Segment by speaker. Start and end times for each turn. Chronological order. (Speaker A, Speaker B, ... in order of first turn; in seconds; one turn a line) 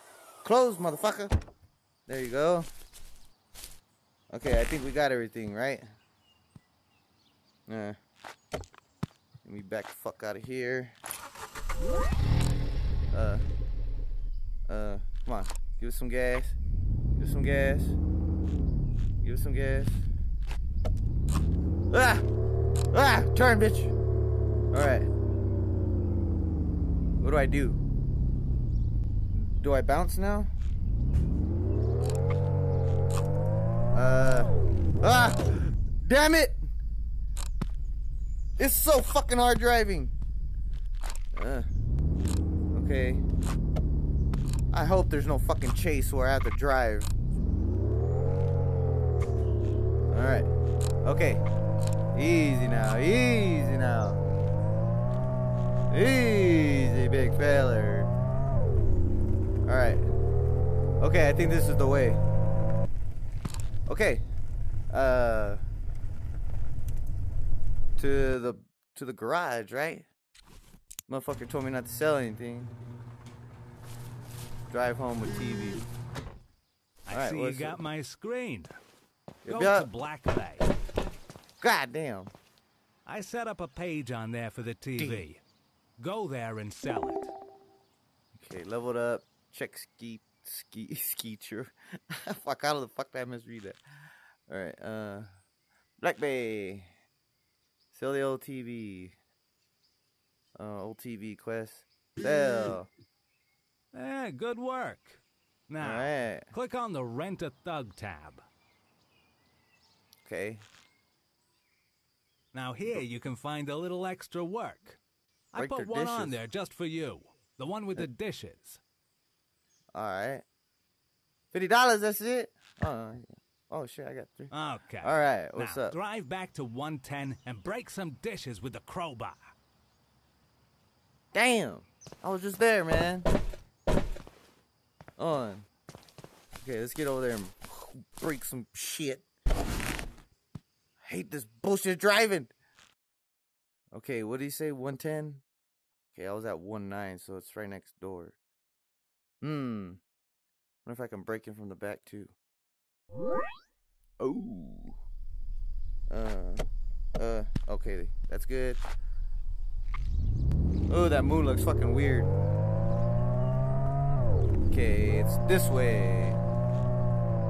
Speaker A: 0.4-1.3
Speaker A: 2.1-2.7
Speaker A: 4.3-5.9
Speaker A: 7.7-8.0
Speaker A: 9.4-11.0
Speaker A: 13.1-13.4
Speaker A: 14.7-16.6
Speaker A: 17.2-18.0
Speaker A: 19.2-20.1
Speaker A: 21.9-22.3
Speaker A: 22.9-23.9
Speaker A: 24.7-25.1
Speaker A: 27.2-27.8
Speaker A: 29.3-30.5
Speaker A: 33.9-36.6
Speaker A: 38.6-40.1
Speaker A: 41.4-41.7
Speaker A: 42.7-43.2
Speaker A: 44.7-47.1
Speaker A: 50.1-50.5
Speaker A: 51.0-51.4
Speaker A: 52.1-54.2
Speaker A: 55.9-58.1
Speaker A: 59.7-60.0
Speaker A: 61.0-62.2
Speaker A: 63.9-64.2
Speaker A: 64.9-65.6
Speaker A: 68.0-70.1
Speaker A: 71.1-72.8
Speaker A: 74.7-75.9
Speaker B: 77.1-78.7
Speaker A: 77.1-77.8
Speaker A: 79.4-79.9
Speaker B: 79.5-80.7
Speaker A: 81.6-82.3
Speaker B: 83.1-85.4
Speaker A: 85.0-85.3
Speaker B: 86.0-87.3
Speaker A: 88.3-93.8
Speaker A: 94.5-95.3
Speaker A: 96.0-96.9
Speaker A: 97.9-99.2
Speaker A: 100.6-102.9
Speaker B: 103.9-108.4
Speaker A: 105.8-106.5
Speaker A: 110.2-110.7
Speaker B: 112.5-115.0
Speaker B: 115.5-118.8
Speaker A: 115.6-116.4
Speaker A: 119.9-120.4
Speaker A: 121.5-124.5
Speaker B: 124.5-129.4
Speaker A: 125.0-126.0
Speaker A: 131.3-133.3
Speaker A: 135.2-135.7
Speaker A: 136.6-139.2
Speaker A: 141.0-142.5
Speaker A: 143.9-145.4
Speaker A: 146.1-148.4
Speaker A: 149.4-150.0
Speaker A: 150.8-152.3
Speaker A: 154.2-155.0
Speaker A: 156.1-158.8
Speaker A: 160.9-162.3
Speaker A: 164.7-166.4